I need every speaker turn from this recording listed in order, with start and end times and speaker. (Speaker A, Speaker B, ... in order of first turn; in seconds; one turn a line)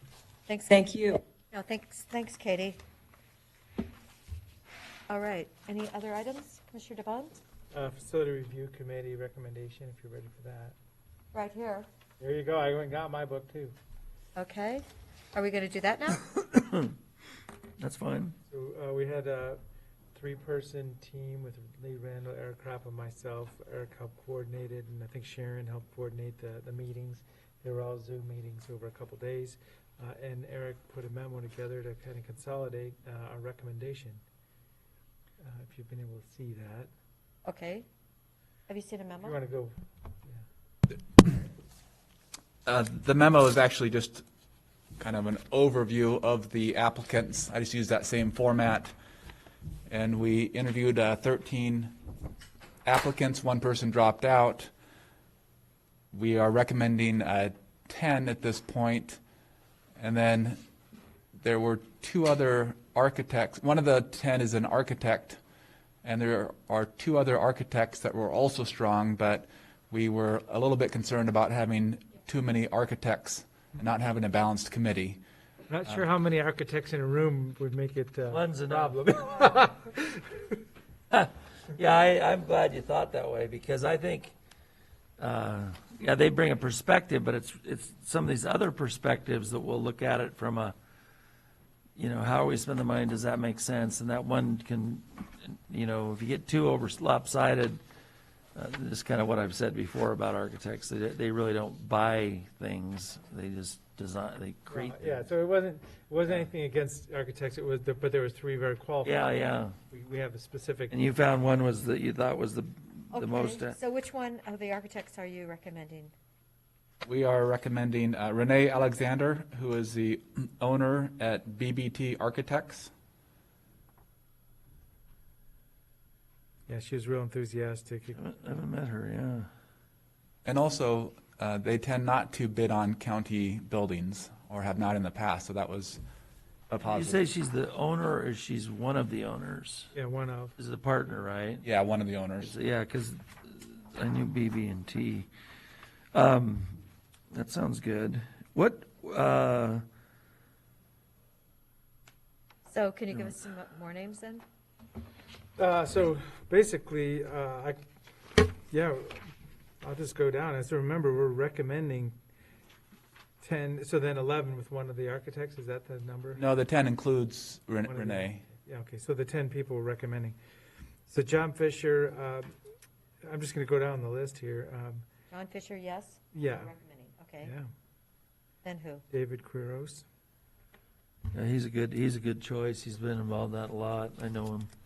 Speaker A: 0.5-0.8
Speaker A: 1.5-2.8
Speaker A: 5.1-7.4
Speaker B: 7.7-10.7
Speaker A: 11.3-11.9
Speaker B: 12.2-13.8
Speaker A: 14.3-16.2
Speaker C: 16.4-16.9
Speaker C: 17.8-18.4
Speaker B: 18.5-19.6
Speaker B: 20.1-34.2
Speaker B: 35.4-36.9
Speaker A: 37.4-37.9
Speaker A: 38.7-39.4
Speaker B: 39.2-39.7
Speaker D: 42.6-44.2
Speaker D: 45.0-48.9
Speaker D: 49.9-51.9
Speaker D: 52.8-54.7
Speaker D: 56.1-59.2
Speaker D: 60.0-60.6
Speaker D: 61.4-65.4
Speaker D: 66.0-75.2
Speaker B: 75.7-80.4
Speaker C: 78.3-79.0
Speaker C: 81.1-84.3
Speaker C: 85.2-90.7
Speaker C: 92.0-97.8
Speaker C: 98.5-105.3
Speaker B: 104.7-109.3
Speaker C: 109.0-109.7
Speaker B: 109.9-110.9
Speaker C: 110.9-113.8
Speaker A: 113.1-116.1
Speaker D: 117.0-122.9
Speaker B: 126.7-128.2
Speaker C: 128.2-129.5
Speaker D: 130.4-136.0
Speaker D: 136.7-137.2
Speaker C: 136.8-139.9
Speaker B: 139.9-140.5
Speaker C: 140.6-141.6
Speaker D: 141.6-142.5
Speaker C: 142.4-145.3
Speaker C: 146.1-146.8
Speaker C: 147.3-149.8
Speaker A: 152.7-154.4
Speaker B: 155.6-157.8
Speaker B: 158.7-159.3
Speaker B: 159.8-162.1
Speaker B: 163.4-166.4
Speaker D: 166.3-168.4
Speaker B: 167.8-170.4
Speaker B: 171.1-172.5
Speaker B: 173.2-175.0
Speaker A: 175.3-177.5
Speaker B: 176.3-176.7
Speaker B: 177.4-177.7
Speaker A: 178.6-179.0
Speaker B: 179.1-180.0
Speaker C: 181.3-184.7